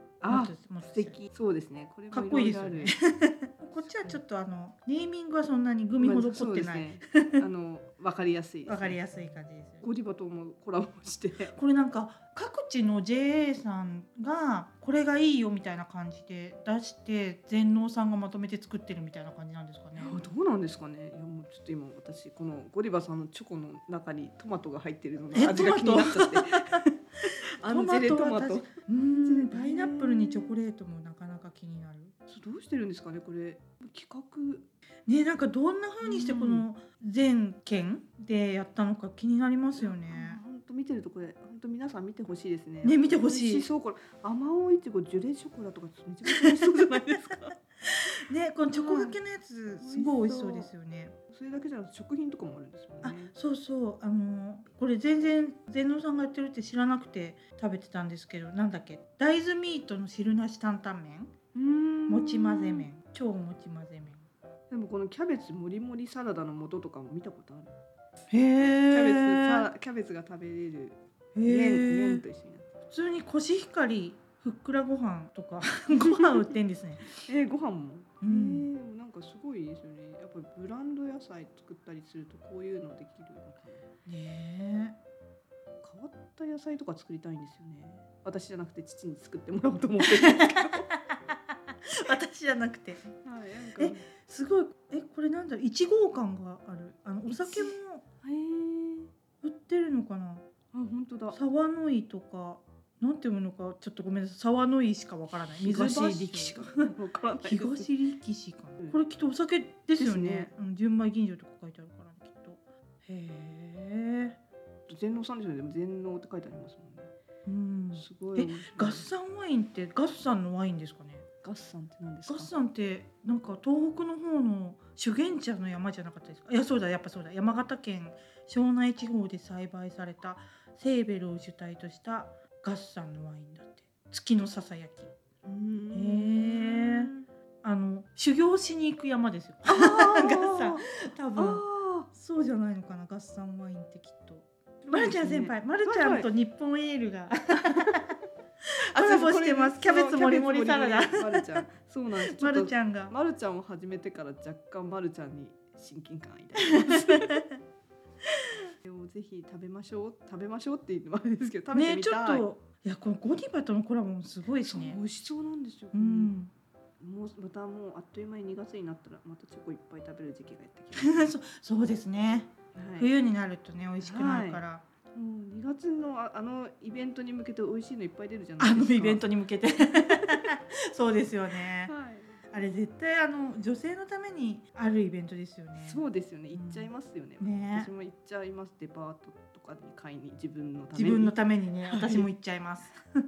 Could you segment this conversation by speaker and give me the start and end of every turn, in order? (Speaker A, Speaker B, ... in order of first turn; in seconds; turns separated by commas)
Speaker A: 0.2-2.9, Speaker B: 0.2-1.2, Speaker B: 2.1-7.4, Speaker A: 3.9-4.2, Speaker A: 6.0-9.0, Speaker B: 8.7-9.8, Speaker A: 9.8-11.5, Speaker B: 11.5-20.3, Speaker A: 19.9-30.6, Speaker B: 25.3-26.8, Speaker B: 27.6-32.1, Speaker A: 32.3-34.6, Speaker B: 35.1-40.4, Speaker A: 36.0-36.6, Speaker A: 39.8-47.5, Speaker B: 42.8-43.7, Speaker B: 46.3-46.8, Speaker B: 47.9-51.1, Speaker A: 48.7-49.1, Speaker A: 49.8-50.7, Speaker A: 51.3-53.3, Speaker B: 53.0-61.3, Speaker A: 61.5-62.9, Speaker B: 62.1-64.2, Speaker A: 64.7-67.7, Speaker B: 68.3-69.7, Speaker A: 68.9-72.7, Speaker B: 71.3-72.2, Speaker B: 72.9-77.3, Speaker A: 75.9-76.4, Speaker A: 77.2-83.8, Speaker B: 78.2-78.7, Speaker B: 84.0-85.0, Speaker A: 85.8-90.8, Speaker B: 90.0-91.3, Speaker B: 91.9-93.0, Speaker A: 93.2-94.1, Speaker B: 93.8-98.0, Speaker A: 97.3-99.1, Speaker B: 99.4-100.4, Speaker A: 100.7-101.4, Speaker B: 101.3-106.9, Speaker A: 105.6-107.9, Speaker B: 107.4-114.4, Speaker A: 109.9-110.5, Speaker A: 114.9-117.1, Speaker B: 117.4-121.2, Speaker A: 117.9-119.1, Speaker A: 121.4-122.5, Speaker B: 122.2-135.1, Speaker A: 135.4-137.3, Speaker B: 135.9-137.1, Speaker B: 137.6-148.0, Speaker A: 139.7-142.1, Speaker A: 144.8-146.3, Speaker A: 148.9-157.4, Speaker B: 148.9-151.7, Speaker B: 152.2-153.1, Speaker B: 156.6-157.5, Speaker A: 158.8-162.4, Speaker B: 161.7-165.0, Speaker A: 164.6-166.3, Speaker B: 165.9-166.5, Speaker A: 167.0-171.3, Speaker B: 170.9-174.8, Speaker A: 172.7-173.1, Speaker A: 174.0-174.6, Speaker A: 175.1-179.2, Speaker B: 178.6-181.9, Speaker A: 181.8-182.4, Speaker B: 182.5-187.9, Speaker A: 185.8-192.3, Speaker B: 190.9-193.0